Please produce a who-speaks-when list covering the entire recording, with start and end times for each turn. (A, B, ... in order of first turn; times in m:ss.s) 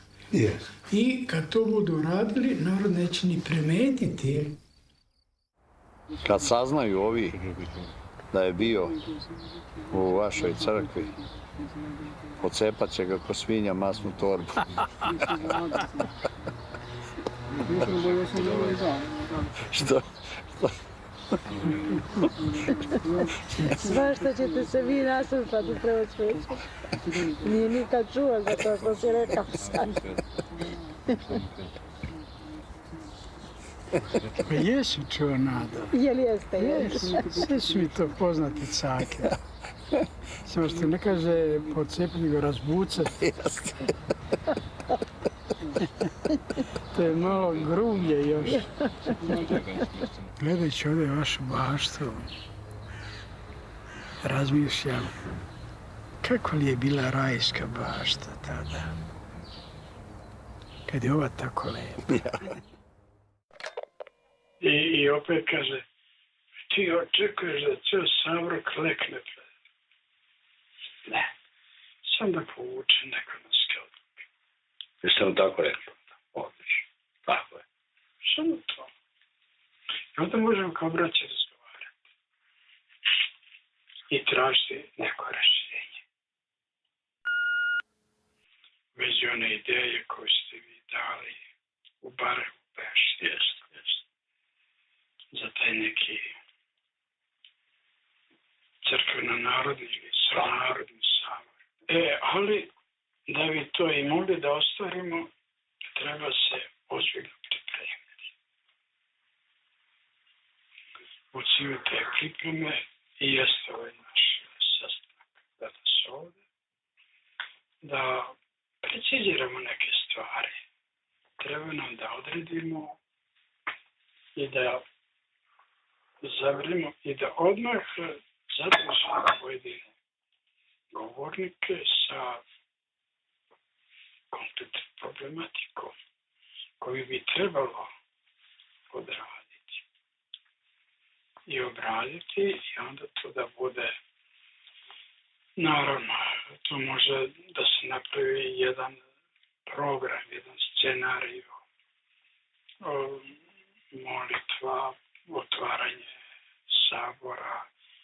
0:00.3-0:00.7 A
0:00.9-0:04.6 B
0:06.2-0:07.5 A
0:08.3-0:09.0 A
0:09.9-0:11.2 A
0:12.4-0:15.1 A
0:17.6-0:19.2 B
0:19.6-0:20.8 A
0:23.7-0:26.6 C
0:27.2-0:30.1 C
0:31.1-0:31.3 C
0:34.4-0:35.9 B
0:35.9-0:37.3 C
0:37.2-0:39.4 B
0:40.4-0:43.3 B
0:46.9-0:48.7 B
0:50.4-0:52.3 B
0:54.2-0:55.1 B
0:56.2-0:59.0 B
1:00.9-1:02.2 B
1:04.6-1:05.8 B
1:06.7-1:09.4 B
1:12.0-1:14.1 B
1:15.0-1:17.6 D
1:18.2-1:18.9 B
1:20.1-1:21.9 B
1:24.1-1:25.9 B
1:29.0-1:31.4 B
1:32.0-1:33.6 B
1:35.3-1:36.2 B
1:38.8-1:42.7 B
1:43.3-1:45.3 B
1:45.9-1:48.1 B
1:51.3-1:56.4 B
1:57.8-2:00.6 B
2:01.4-2:03.0 B
2:04.4-2:04.8 B
2:06.2-2:09.9 B
2:10.9-2:12.4 B
2:14.3-2:15.9 B
2:16.8-2:17.9 B
2:18.9-2:19.8 B
2:21.5-2:23.9 B
2:25.6-2:29.0 B
2:29.6-2:31.5 B
2:32.8-2:33.4 B
2:33.9-2:36.1 B
2:36.7-2:37.6 B